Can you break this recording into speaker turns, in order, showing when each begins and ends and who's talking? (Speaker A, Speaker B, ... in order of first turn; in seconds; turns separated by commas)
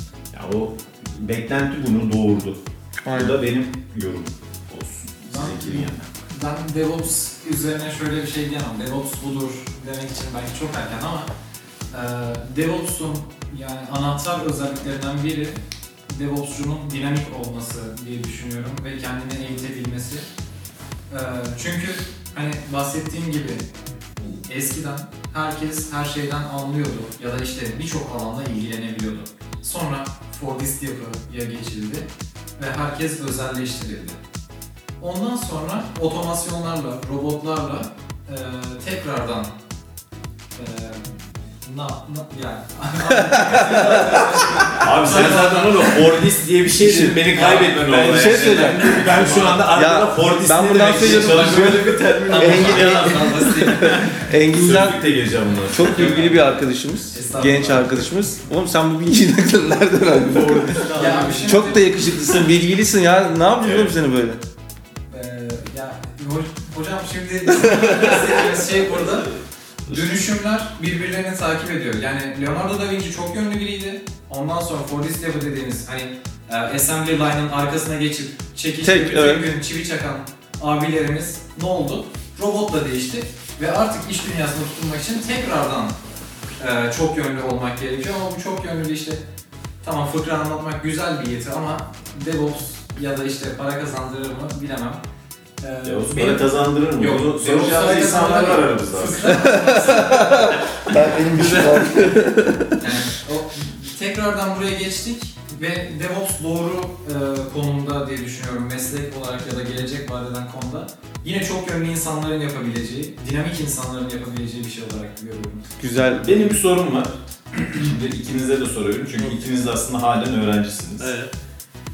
Speaker A: 0.3-6.1, Speaker B: 3.0-3.4, Speaker C: 5.3-11.3, Speaker C: 11.9-15.6, Speaker C: 16.1-20.3, Speaker C: 21.1-23.6, Speaker C: 24.2-34.2, Speaker C: 35.0-39.5, Speaker C: 40.6-46.1, Speaker B: 43.1-44.4, Speaker A: 44.7-53.2, Speaker B: 46.8-47.3, Speaker D: 47.3-49.6, Speaker B: 47.9-49.0, Speaker B: 49.7-55.0, Speaker C: 51.0-54.2, Speaker D: 52.5-53.0, Speaker A: 54.4-56.2, Speaker B: 55.7-60.9, Speaker C: 55.9-58.2, Speaker D: 60.2-61.7, Speaker A: 60.9-61.4, Speaker C: 60.9-62.5, Speaker B: 61.4-64.4, Speaker A: 63.6-63.9, Speaker C: 65.1-69.3, Speaker B: 67.6-68.3, Speaker C: 69.8-86.0, Speaker B: 78.8-79.5, Speaker C: 86.6-89.2, Speaker C: 89.8-95.0, Speaker C: 95.6-100.5, Speaker A: 95.8-99.5, Speaker B: 99.3-102.8, Speaker D: 101.3-102.1, Speaker C: 102.8-115.7, Speaker B: 115.8-116.5, Speaker A: 116.2-121.1, Speaker D: 121.0-121.3